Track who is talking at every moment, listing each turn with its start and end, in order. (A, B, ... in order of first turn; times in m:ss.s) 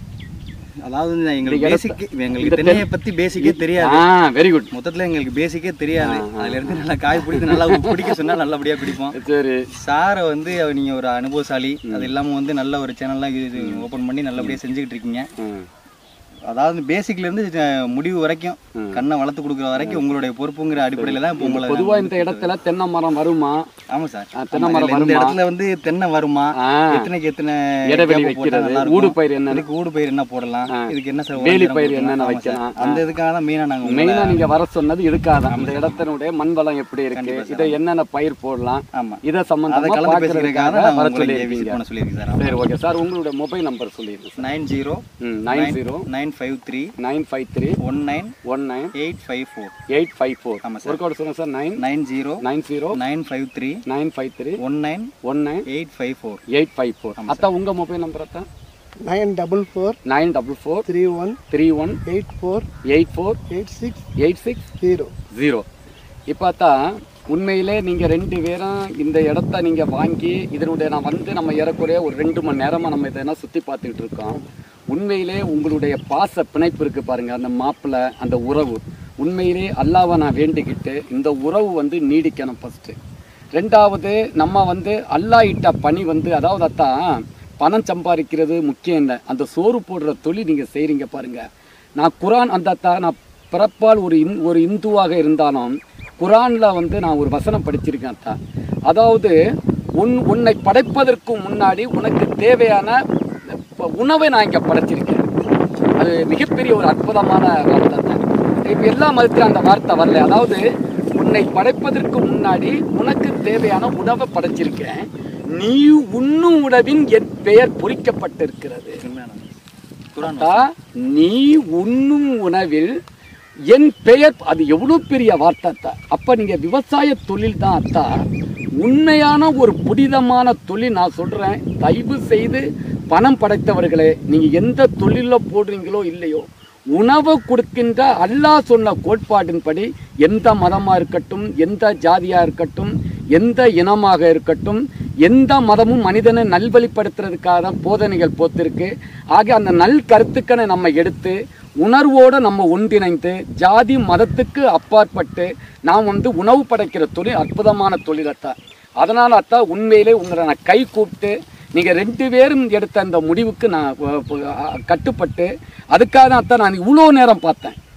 0:00.8-0:04.0 A
0:01.5-0:02.8 B
0:03.4-0:04.7 B
0:04.7-0:09.2 A
0:06.0-0:08.3 B
0:09.1-0:09.7 B
0:09.8-0:15.3 A
0:11.9-0:12.1 B
0:13.6-0:13.8 B
0:15.4-0:15.7 B
0:16.5-0:22.5 A
0:18.8-0:19.0 B
0:20.9-0:23.7 B
0:23.9-0:34.6 A
0:24.4-0:25.4 B
0:26.6-0:27.1 B
0:27.9-0:29.6 B
0:30.7-0:33.0 B
0:33.9-0:41.8 B
0:35.5-0:36.1 A
0:37.1-0:37.8 A
0:38.9-0:42.6 A
0:42.4-0:44.4 B
0:44.4-0:46.9 A
0:45.2-0:46.1 B
0:47.0-0:47.8 B
0:47.8-0:48.3 A
0:48.4-0:48.9 B
0:49.0-0:49.7 A
0:49.9-0:51.8 B
0:50.6-0:51.0 A
0:51.8-0:52.4 A
0:52.4-0:53.0 B
0:52.9-0:53.8 A
0:53.9-0:54.6 B
0:54.6-0:55.1 A
0:55.2-0:55.6 B
0:55.7-0:56.4 A
0:56.5-0:58.5 B
0:57.2-0:57.5 A
0:59.0-1:00.0 C
1:00.1-1:00.9 B
1:00.9-1:01.4 C
1:01.5-1:02.0 B
1:02.1-1:02.7 C
1:02.9-1:03.4 B
1:03.5-1:04.0 C
1:04.2-1:04.6 B
1:04.8-1:05.1 C
1:05.3-1:05.7 B
1:06.3-1:14.4 B
1:14.9-1:23.0 B
1:23.6-1:31.4 B
1:32.0-1:39.4 B
1:40.0-1:43.0 B
1:43.5-1:45.2 B
1:46.0-1:59.0 B
1:59.0-1:59.5 A
2:00.2-2:00.7 A
2:00.3-2:03.0 B
2:03.7-2:08.2 B
2:08.8-2:47.8 B